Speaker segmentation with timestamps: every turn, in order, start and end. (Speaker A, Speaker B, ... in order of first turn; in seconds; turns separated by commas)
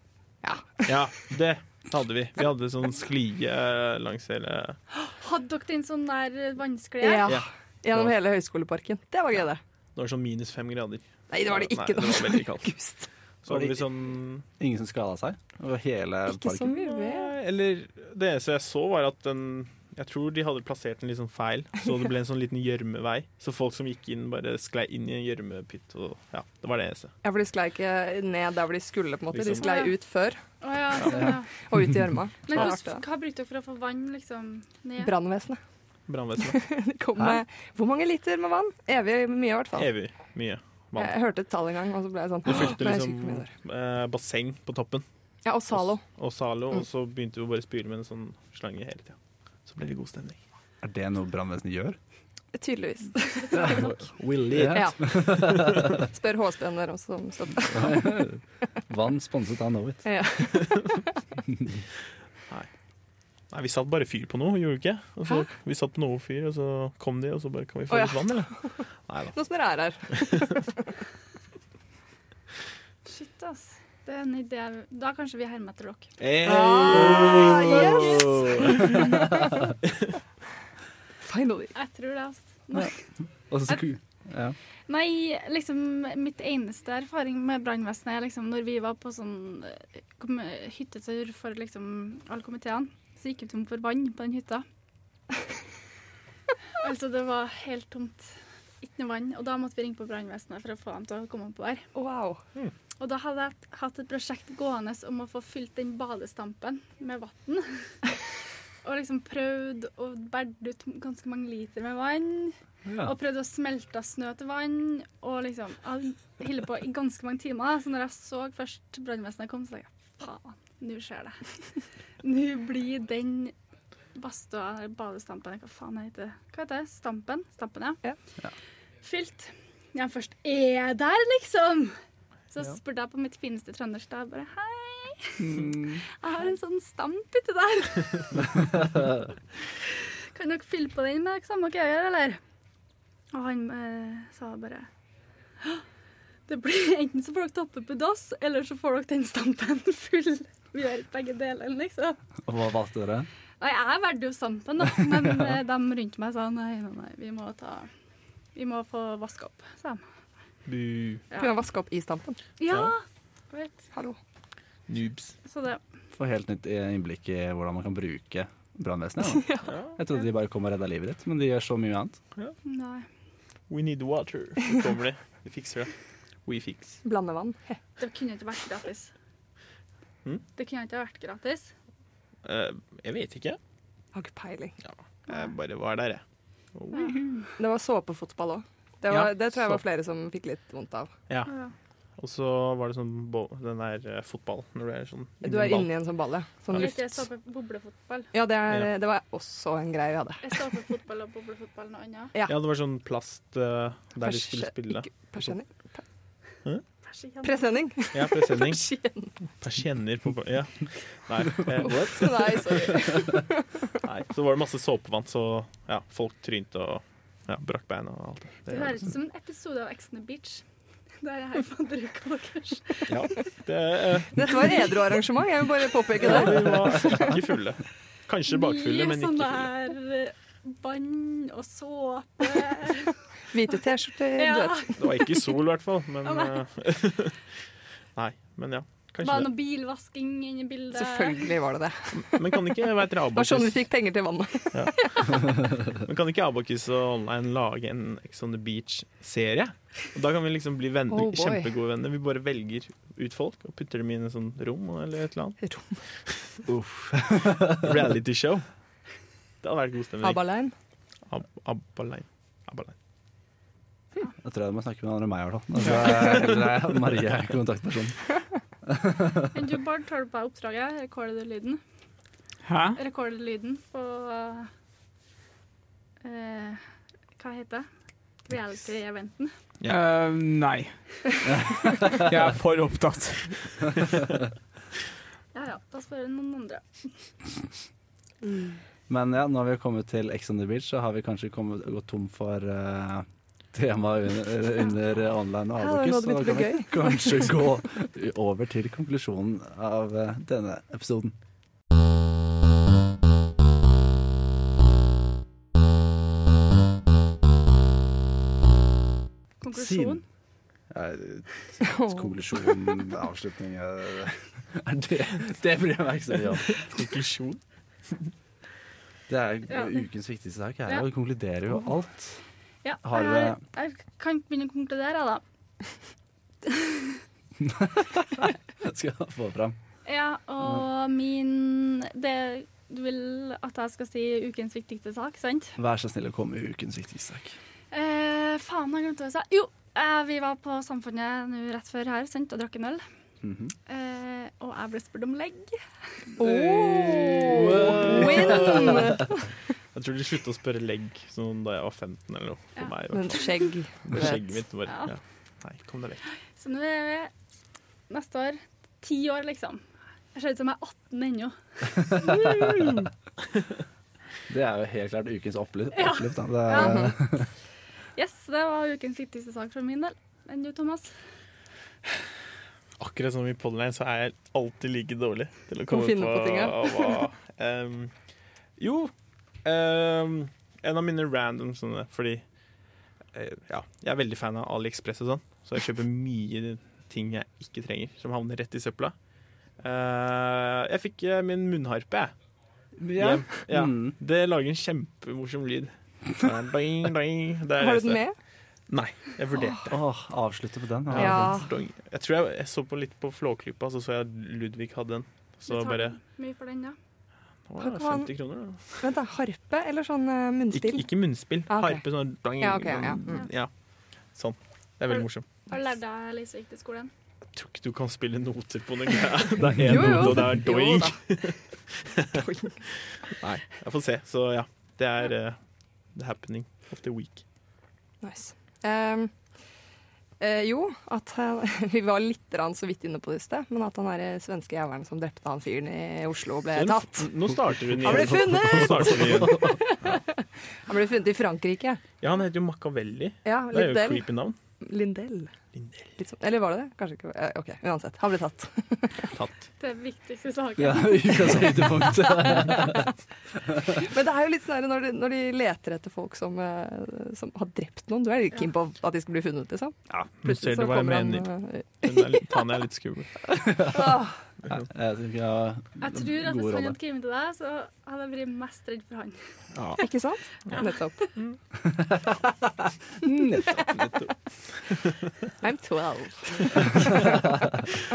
Speaker A: 0.4-0.9, Speaker B: 0.8-4.8, Speaker C: 5.1-7.3, Speaker A: 7.0-9.6, Speaker B: 7.2-8.1, Speaker B: 10.0-12.7, Speaker A: 11.3-13.1, Speaker B: 13.4-14.4, Speaker D: 13.5-13.9, Speaker D: 14.6-16.8, Speaker A: 16.3-17.4, Speaker B: 16.9-27.1, Speaker A: 27.2-30.4, Speaker B: 29.3-29.7, Speaker C: 29.6-29.9, Speaker C: 30.6-31.5, Speaker B: 31.0-31.3, Speaker D: 31.1-31.4, Speaker A: 31.7-33.0, Speaker C: 32.5-35.1, Speaker A: 35.0-35.6, Speaker B: 36.1-36.6, Speaker A: 36.4-39.9, Speaker B: 39.8-41.1, Speaker A: 41.0-43.5, Speaker B: 42.5-45.0, Speaker A: 45.5-46.0, Speaker B: 46.1-50.4, Speaker D: 50.8-52.0, Speaker A: 52.5-53.9, Speaker D: 53.5-56.0, Speaker C: 53.6-53.9, Speaker B: 54.2-55.0, Speaker A: 54.6-58.2, Speaker D: 57.7-60.0, Speaker A: 60.0-61.1, Speaker B: 63.5-68.5, Speaker A: 67.9-68.7, Speaker B: 69.1-69.3, Speaker A: 69.3-70.6, Speaker C: 73.1-76.2, Speaker B: 76.2-79.0, Speaker A: 76.5-78.8, Speaker D: 76.9-79.3, Speaker C: 77.6-78.3, Speaker A: 81.2-81.7, Speaker C: 81.8-82.9, Speaker D: 83.5-84.6, Speaker C: 84.9-94.7, Speaker C: 96.8-98.3, Speaker C: 98.8-101.8, Speaker A: 101.9-102.4, Speaker C: 103.0-107.8, Speaker C: 108.8-121.4, Speaker D: 112.9-113.1, Speaker C: 122.2-123.5, Speaker C: 124.2-128.0, Speaker C: 129.0-132.0, Speaker C: 132.5-138.9, Speaker D: 135.4-136.0, Speaker C: 139.6-142.4, Speaker C: 143.3-144.9, Speaker C: 146.5-152.2, Speaker D: 152.4-153.3, Speaker C: 153.6-157.9, Speaker C: 158.6-160.0, Speaker B: 160.7-161.2, Speaker A: 161.4-162.4, Speaker C: 162.6-163.8, Speaker B: 164.9-165.4, Speaker C: 165.5-165.8, Speaker D: 166.2-172.2, Speaker A: 169.3-169.8, Speaker B: 169.7-170.0, Speaker C: 172.7-173.1, Speaker B: 173.7-175.9, Speaker B: 176.4-177.0, Speaker A: 177.0-177.8, Speaker C: 178.0-179.1, Speaker C: 180.6-181.7, Speaker B: 182.4-183.6, Speaker A: 184.1-184.7, Speaker B: 184.8-186.2, Speaker C: 185.3-185.5, Speaker B: 186.8-187.2, Speaker C: 186.9-187.5, Speaker A: 187.6-191.1, Speaker B: 189.1-189.8, Speaker C: 191.5-191.7, Speaker B: 192.2-195.9, Speaker A: 195.4-197.2, Speaker C: 196.8-198.3, Speaker A: 198.3-200.6, Speaker C: 200.4-202.3, Speaker B: 202.5-205.6, Speaker A: 204.2-206.0, Speaker C: 207.1-207.7, Speaker A: 207.4-209.3, Speaker B: 208.1-208.8, Speaker B: 209.6-213.1, Speaker A: 211.8-213.8, Speaker B: 214.0-219.0, Speaker C: 218.7-220.6, Speaker C: 221.2-223.1, Speaker B: 223.1-224.9, Speaker A: 224.3-227.3, Speaker B: 226.2-229.7, Speaker C: 228.5-233.1, Speaker A: 233.5-234.9, Speaker C: 234.4-235.5, Speaker B: 235.0-237.4, Speaker C: 236.3-236.6, Speaker B: 238.2-239.5, Speaker C: 239.2-241.5, Speaker A: 240.9-242.8, Speaker B: 242.1-243.8, Speaker A: 243.3-245.1, Speaker B: 245.9-255.6, Speaker A: 251.1-251.7, Speaker A: 255.6-256.0, Speaker D: 256.7-257.9, Speaker B: 257.6-258.7, Speaker B: 259.6-260.4, Speaker A: 260.2-260.7, Speaker B: 261.3-262.9, Speaker D: 264.4-268.3, Speaker D: 268.9-269.5, Speaker C: 269.5-271.8, Speaker E: 272.7-273.0, Speaker C: 273.0-274.7, Speaker C: 276.2-276.8, Speaker C: 277.4-277.9, Speaker C: 278.5-279.5, Speaker E: 279.9-280.9, Speaker E: 281.5-283.9, Speaker C: 285.5-287.0, Speaker D: 289.1-301.3, Speaker A: 295.8-297.5, Speaker C: 309.6-310.2, Speaker D: 309.7-310.2, Speaker D: 310.9-316.8, Speaker B: 316.7-317.6, Speaker D: 319.3-322.4, Speaker C: 322.8-325.4, Speaker D: 323.0-323.6, Speaker C: 326.6-327.2, Speaker D: 327.6-328.2, Speaker D: 328.8-329.8, Speaker C: 330.1-335.8, Speaker D: 335.8-337.6, Speaker C: 337.9-343.0, Speaker D: 343.4-343.7, Speaker C: 343.9-345.8, Speaker A: 346.4-349.5, Speaker D: 346.7-349.0, Speaker B: 347.5-349.2, Speaker B: 349.9-353.5, Speaker A: 353.1-354.5, Speaker B: 354.1-356.3, Speaker C: 356.6-357.3, Speaker C: 358.1-359.8, Speaker C: 360.3-362.9, Speaker D: 362.1-363.0, Speaker D: 364.5-367.5, Speaker C: 365.9-367.1, Speaker A: 366.7-367.1, Speaker C: 368.2-371.1, Speaker B: 373.0-378.1, Speaker A: 375.9-377.2, Speaker B: 378.8-379.1, Speaker B: 379.6-382.4, Speaker B: 383.3-389.1, Speaker B: 389.8-392.3, Speaker D: 393.0-394.1, Speaker B: 393.2-398.2, Speaker A: 397.8-398.4, Speaker B: 398.9-400.0, Speaker D: 399.9-401.5, Speaker B: 401.1-406.2, Speaker A: 401.1-401.7, Speaker C: 405.7-407.0, Speaker B: 407.7-409.0, Speaker A: 407.8-408.3, Speaker A: 409.0-411.1, Speaker B: 410.7-413.7, Speaker A: 411.7-412.0, Speaker A: 412.6-413.5, Speaker B: 414.4-415.5, Speaker C: 415.1-417.1, Speaker B: 417.6-425.6, Speaker A: 419.8-421.3, Speaker A: 422.3-422.8, Speaker B: 426.1-427.4, Speaker A: 428.2-429.3, Speaker A: 430.4-437.3, Speaker B: 436.8-439.7, Speaker A: 438.0-440.2, Speaker A: 440.9-442.0, Speaker B: 442.2-444.6, Speaker A: 443.4-444.3, Speaker A: 444.8-445.5, Speaker B: 445.8-446.1, Speaker A: 446.2-449.3, Speaker C: 449.8-451.7, Speaker D: 450.8-453.1, Speaker A: 452.4-453.0, Speaker A: 453.9-462.4, Speaker B: 460.1-461.5, Speaker B: 462.0-463.3, Speaker A: 463.6-464.4, Speaker D: 463.8-464.2, Speaker D: 464.7-467.0, Speaker C: 466.0-469.4, Speaker B: 469.7-470.0, Speaker A: 470.0-471.2, Speaker D: 473.3-473.6, Speaker A: 473.4-473.9, Speaker B: 473.5-475.1, Speaker A: 475.6-477.2